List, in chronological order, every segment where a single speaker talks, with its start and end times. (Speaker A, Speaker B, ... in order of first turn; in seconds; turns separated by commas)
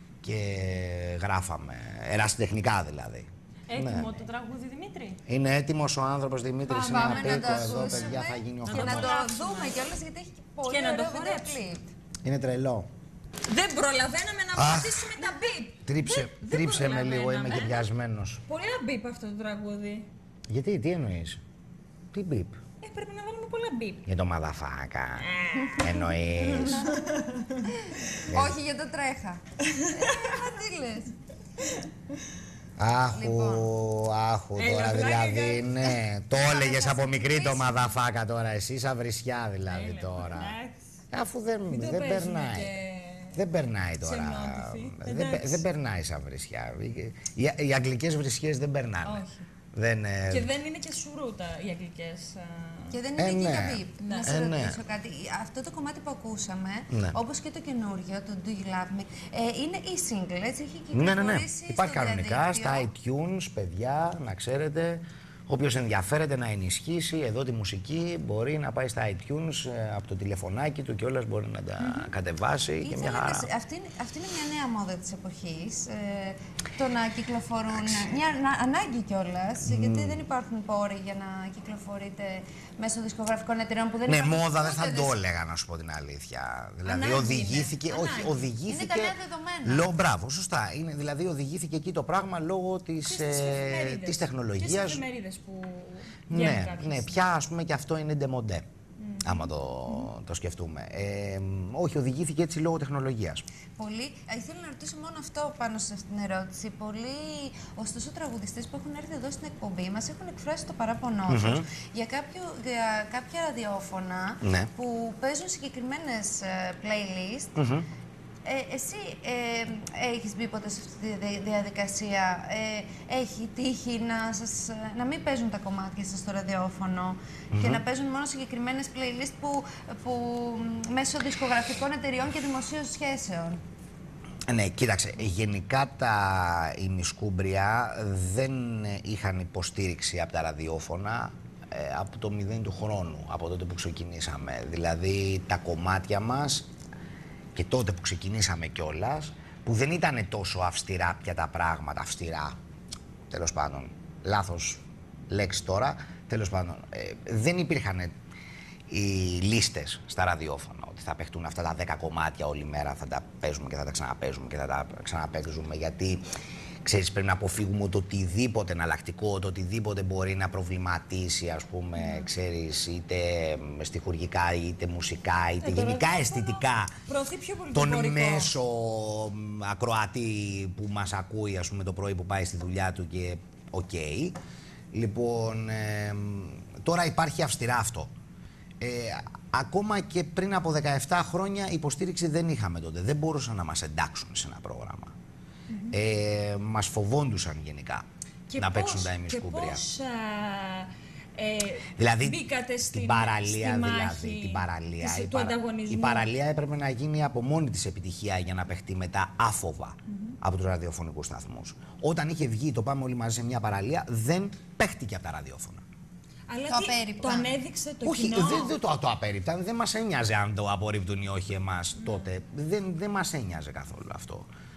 Speaker A: 0.2-4.2, Speaker B: 3.7-5.2, Speaker A: 5.3-9.2, Speaker C: 6.7-11.9, Speaker B: 6.8-9.8, Speaker B: 10.7-11.6, Speaker A: 12.2-12.9, Speaker B: 13.5-17.9, Speaker A: 14.5-15.3, Speaker A: 15.8-18.4, Speaker B: 18.5-20.1, Speaker A: 20.5-21.4, Speaker A: 22.1-22.6, Speaker B: 22.8-24.1, Speaker A: 24.1-26.9, Speaker B: 25.2-27.6, Speaker C: 28.1-31.1, Speaker A: 28.3-28.6, Speaker A: 32.8-40.6, Speaker C: 33.1-33.7, Speaker B: 34.6-36.0, Speaker C: 36.3-37.9, Speaker B: 39.7-40.8, Speaker A: 41.1-42.7, Speaker B: 41.7-43.4, Speaker A: 43.3-50.5, Speaker B: 44.0-45.6, Speaker B: 49.0-49.4, Speaker B: 50.3-53.0, Speaker C: 52.9-62.9, Speaker A: 53.2-54.8, Speaker B: 54.0-54.3, Speaker A: 56.9-57.2, Speaker A: 60.9-73.5, Speaker B: 71.8-72.1, Speaker C: 72.8-85.1, Speaker A: 77.7-78.1, Speaker A: 79.6-80.2, Speaker A: 84.1-95.0, Speaker B: 86.8-88.5, Speaker C: 88.7-89.9, Speaker B: 93.0-97.2, Speaker A: 96.3-98.7, Speaker B: 99.0-100.1, Speaker A: 99.2-103.5, Speaker C: 103.8-117.5, Speaker A: 111.3-111.7, Speaker A: 114.4-114.7, Speaker A: 117.6-117.9, Speaker C: 118.5-133.6, Speaker A: 127.5-127.8, Speaker A: 134.5-146.7, Speaker A: 147.5-152.6, Speaker A: 153.3-158.1, Speaker A: 158.9-166.2, Speaker A: 166.8-177.0, Speaker B: 172.0-172.3, Speaker B: 175.6-178.5, Speaker A: 177.7-184.4, Speaker A: 184.9-188.1, Speaker A: 188.8-195.1, Speaker B: 195.7-196.0, Speaker A: 195.9-198.1, Speaker B: 198.5-206.3, Speaker A: 198.6-199.8, Speaker A: 202.0-215.8, Speaker B: 210.1-210.4, Speaker B: 216.5-218.7, Speaker C: 216.7-217.5, Speaker A: 218.0-224.5, Speaker B: 222.0-222.2